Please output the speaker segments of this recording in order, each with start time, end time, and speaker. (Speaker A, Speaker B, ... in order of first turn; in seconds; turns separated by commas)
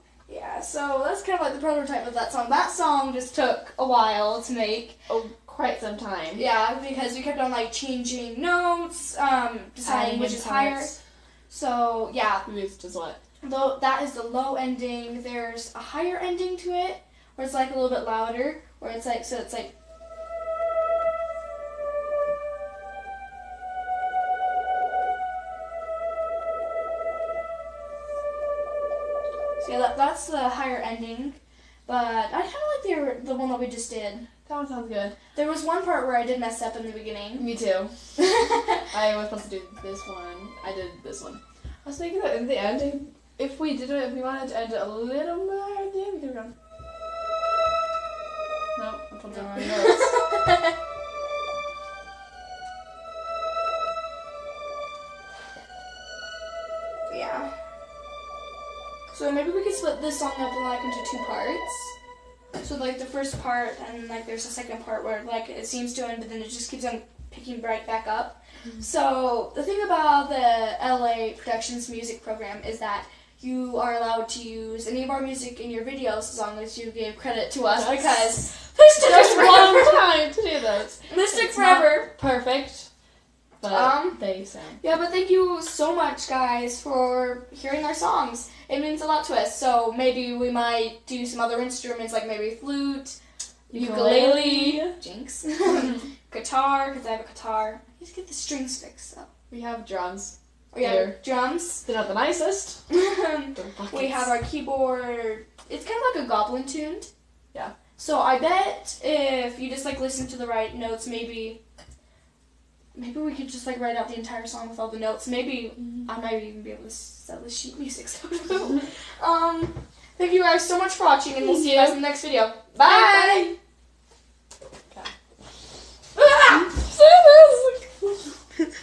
Speaker A: 0.3-5.0, Speaker B: 5.1-6.4, Speaker A: 6.3-10.9, Speaker B: 9.8-10.9, Speaker A: 11.5-12.4, Speaker B: 12.4-13.2, Speaker A: 13.4-19.7, Speaker A: 29.6-34.3, Speaker B: 34.5-35.1, Speaker A: 35.3-37.5, Speaker B: 37.4-37.9, Speaker A: 38.2-38.9, Speaker B: 38.9-46.5, Speaker B: 48.8-50.2, Speaker A: 49.3-50.7, Speaker A: 57.1-57.5, Speaker A: 59.1-61.9, Speaker A: 62.6-80.1, Speaker B: 77.7-78.5, Speaker B: 79.0-82.9, Speaker A: 81.1-82.1, Speaker B: 83.6-84.8, Speaker A: 83.7-84.2, Speaker A: 84.8-93.2, Speaker A: 93.7-99.3, Speaker B: 93.7-94.9, Speaker B: 95.6-96.0, Speaker B: 99.5-101.2, Speaker A: 100.7-101.8, Speaker B: 101.8-102.8, Speaker A: 102.9-107.1, Speaker B: 103.5-104.3, Speaker A: 108.0-111.6, Speaker A: 112.9-123.5, Speaker B: 121.4-122.0, Speaker B: 122.8-123.5, Speaker B: 126.2-128.4